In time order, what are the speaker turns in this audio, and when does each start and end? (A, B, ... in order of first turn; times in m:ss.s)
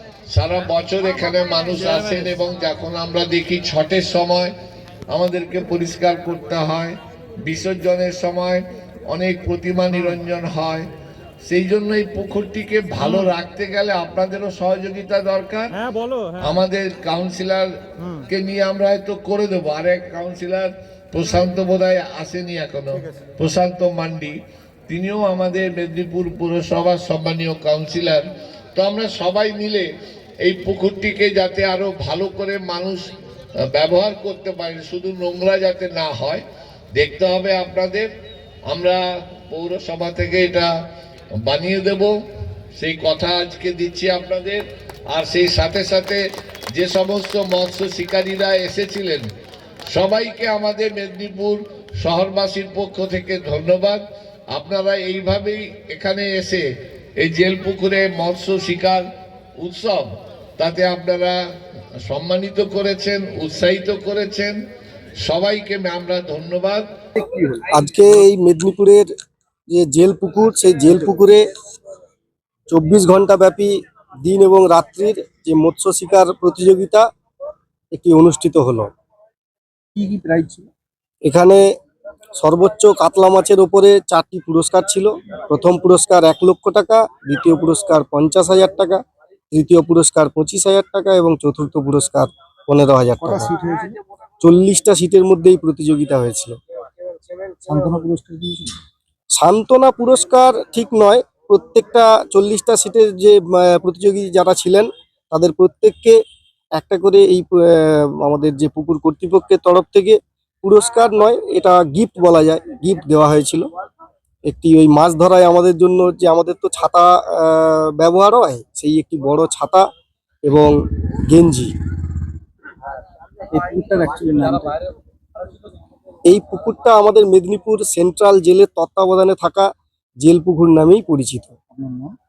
0:00.3-0:04.5 A
0:05.1-0:10.9 A
0:11.4-0:15.7 A
0:16.4-0:17.7 A
0:18.3-0:24.4 A
0:24.9-0:28.2 A
0:28.7-0:29.9 A
0:30.4-0:33.1 A
0:33.7-0:36.4 A
0:36.9-0:38.1 A
0:38.7-0:40.7 A
0:41.4-0:42.1 A
0:42.8-0:46.2 A
0:46.7-0:49.2 A
0:49.9-0:54.0 A
0:54.5-0:56.6 A
0:57.2-0:59.0 A
0:59.6-1:00.0 A
1:00.6-1:01.4 A
1:02.1-1:04.5 A
1:05.2-1:06.8 A
1:07.2-1:09.1 B
1:09.7-1:11.4 B
1:12.7-1:17.0 B
1:17.9-1:18.9 B
1:20.0-1:20.7 C
1:21.2-1:21.6 B
1:22.4-1:29.0 B
1:29.5-1:33.5 B
1:33.2-1:33.9 C
1:34.4-1:36.5 B
1:37.7-1:38.7 C
1:39.3-1:46.2 B
1:46.7-1:53.6 B
1:54.5-1:59.8 B
2:00.4-2:00.7 B
2:01.3-2:01.7 B
2:03.5-2:04.7 C
2:03.6-2:04.5 B
2:06.3-2:09.7 B
2:10.2-2:11.6 B
2:11.8-2:12.1 C